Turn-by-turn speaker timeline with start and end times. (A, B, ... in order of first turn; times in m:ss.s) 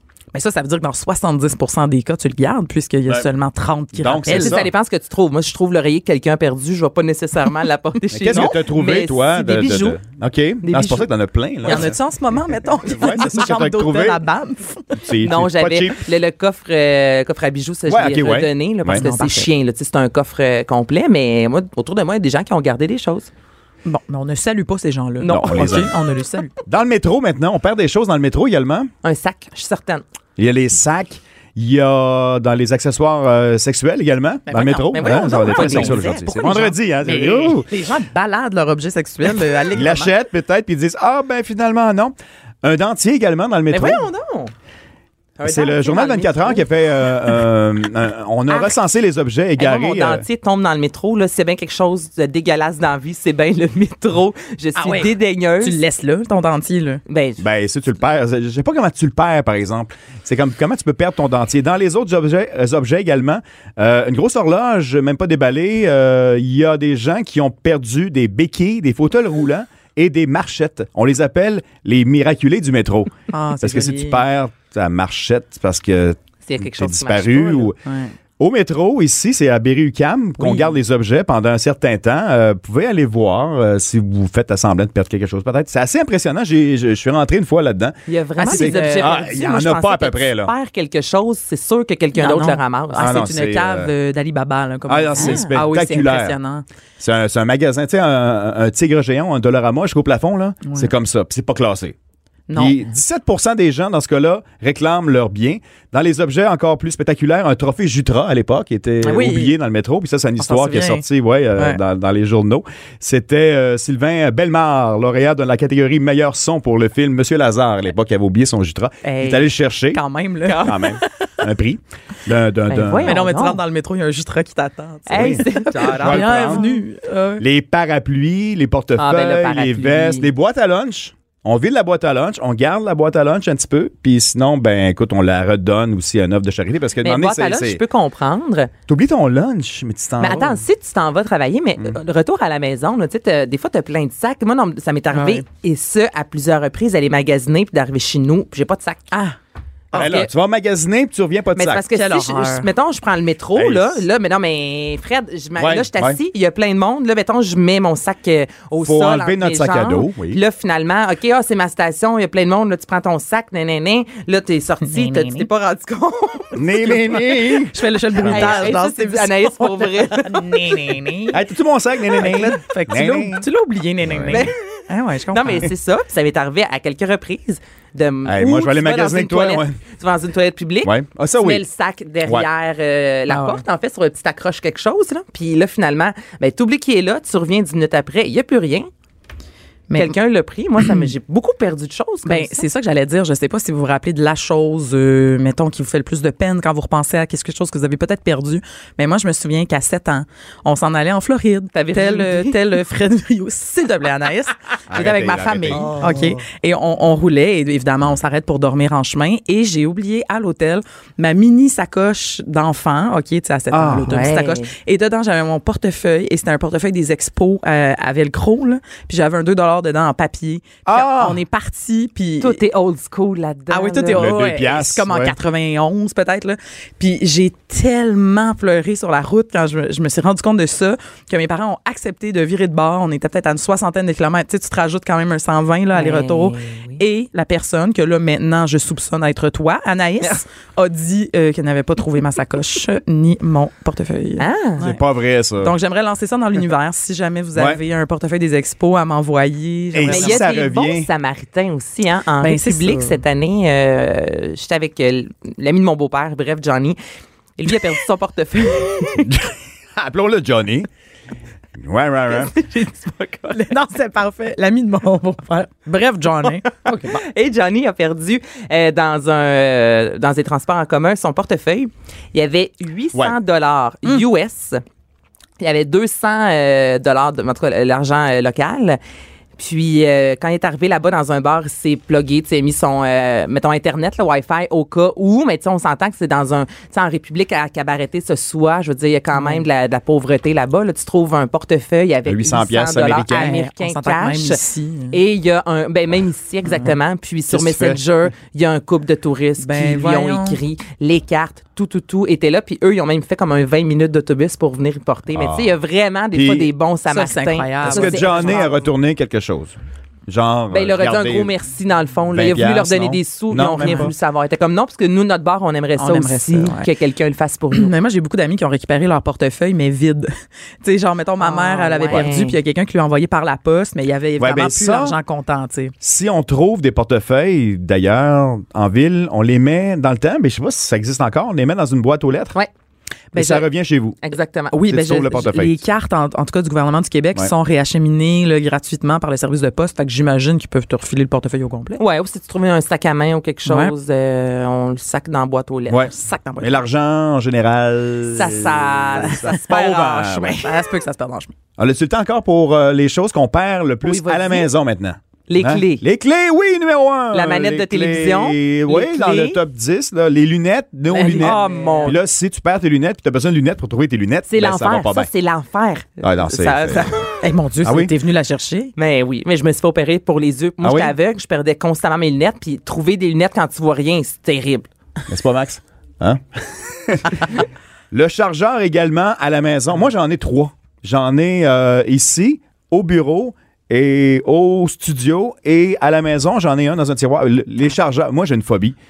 0:00.3-0:04.6 A
0:04.0-0:04.7 B
0:04.2-0:10.0 C
0:08.1-0:12.0 B
0:08.3-0:08.6 A
0:10.6-0:11.1 C
0:11.6-0:15.0 A
0:12.6-0:14.2 B
0:14.9-0:16.0 B
0:15.2-0:23.3 C
0:17.9-0:19.0 B
0:18.9-0:19.5 A
0:23.8-0:26.5 A
0:25.2-0:25.8 C
0:25.2-0:25.9 B
0:26.6-0:28.9 B
0:29.0-0:30.0 C
0:30.4-0:37.7 B
0:34.5-0:40.1 A
0:34.9-0:36.7 C
0:39.7-0:44.0 B
0:43.7-0:44.5 C
0:45.4-0:46.7 C
0:45.4-0:50.2 B
0:48.5-0:48.8 C
0:49.6-0:55.8 C
0:54.8-0:57.0 A
0:57.1-0:57.4 C
0:57.4-1:17.8 B
1:13.3-1:14.2 A
1:16.4-1:17.7 C
1:17.8-1:18.1 A
1:18.4-1:28.0 B
1:20.4-1:20.8 A
1:28.1-1:33.2 C
1:28.4-1:29.2 A
1:28.5-1:30.5 B
1:32.2-1:36.6 A
1:33.0-1:33.9 B
1:34.9-1:36.4 B
1:35.2-1:35.5 C
1:37.0-1:42.0 B
1:40.6-1:40.9 A
1:42.5-1:42.8 A
1:42.6-2:00.0 B
1:49.0-1:49.6 A
1:50.4-1:51.0 A
1:59.0-1:59.4 C
1:59.9-2:01.4 A
2:00.4-2:00.9 C
2:00.6-2:03.2 B
2:02.7-2:03.6 C
2:03.0-2:07.4 A
2:05.1-2:06.7 C
2:05.1-2:06.7 B
2:07.4-2:17.8 B
2:09.0-2:10.3 C
2:17.0-2:18.7 C
2:18.9-2:20.6 B
2:20.2-2:29.1 C
2:25.1-2:25.4 A
2:29.1-2:29.4 A
2:29.9-2:30.3 C
2:29.9-2:31.8 B
2:31.5-2:47.0 C
2:31.9-2:32.7 A
2:33.5-2:34.0 B
2:35.6-2:36.2 B
2:38.8-2:40.4 B
2:44.8-2:45.5 A
2:46.5-2:48.7 B
2:46.9-2:51.4 A
2:48.2-2:51.0 C
2:51.3-2:53.4 B
2:52.1-2:55.7 A
2:54.0-2:54.5 B
2:54.3-2:54.8 C
2:55.3-3:08.9 C
2:58.2-2:59.8 B
3:00.8-3:01.6 B
3:03.3-3:03.6 A
3:09.9-3:12.6 C
3:12.2-3:24.6 A
3:21.7-3:22.6 C
3:24.9-3:26.2 B
3:24.9-3:26.3 C
3:25.9-3:42.6 A
3:33.7-3:34.1 B
3:34.1-3:34.7 C
3:40.8-3:41.4 B
3:42.4-3:44.3 C
3:43.7-4:05.0 A
3:44.1-3:45.3 B
3:55.9-3:57.0 C
4:04.4-4:04.8 C
4:04.8-4:05.7 B
4:05.6-4:10.5 A
4:09.9-4:11.1 B
4:10.1-4:17.0 C
4:12.4-4:13.2 A
4:17.6-4:19.3 C
4:19.2-4:20.9 B
4:21.8-4:22.5 B
4:22.3-4:23.7 C
4:23.5-4:27.2 A
4:26.9-4:34.8 C
4:35.6-4:39.0 C
4:39.6-4:54.6 C
4:49.3-4:49.6 A
4:52.2-4:53.6 B
4:53.3-4:55.2 A
4:55.1-5:08.8 C
4:57.5-4:58.0 B
4:59.6-5:00.6 A
5:05.3-5:05.8 B
5:06.3-5:06.7 B
5:07.1-5:08.8 A
5:07.8-5:09.8 B
5:10.3-5:11.5 B
5:10.7-5:17.9 C
5:12.3-5:14.1 B
5:13.8-5:14.1 A
5:16.0-5:16.9 A
5:17.7-5:20.3 A
5:20.8-5:25.9 A
5:21.4-5:22.6 C
5:24.4-5:25.2 B
5:26.0-5:32.5 B
5:33.3-5:34.2 B
5:33.4-5:33.6 A
5:34.2-5:34.8 C
5:34.7-5:42.0 A
5:34.9-5:35.8 B
5:42.0-5:46.1 C
5:43.7-5:43.9 A
5:45.9-5:50.6 B
5:46.0-5:46.8 A
5:48.3-5:50.8 C
5:50.6-5:51.5 A
5:51.8-6:05.3 B
5:54.0-5:54.7 C
5:55.5-5:56.0 C
5:57.3-5:59.6 C
6:01.1-6:02.1 A
6:01.2-6:02.2 C
6:04.5-6:07.3 C
6:06.2-6:07.1 B
6:07.4-6:08.9 A
6:07.8-6:08.1 B
6:09.0-6:14.9 C
6:10.8-6:11.1 B
6:15.3-6:29.0 B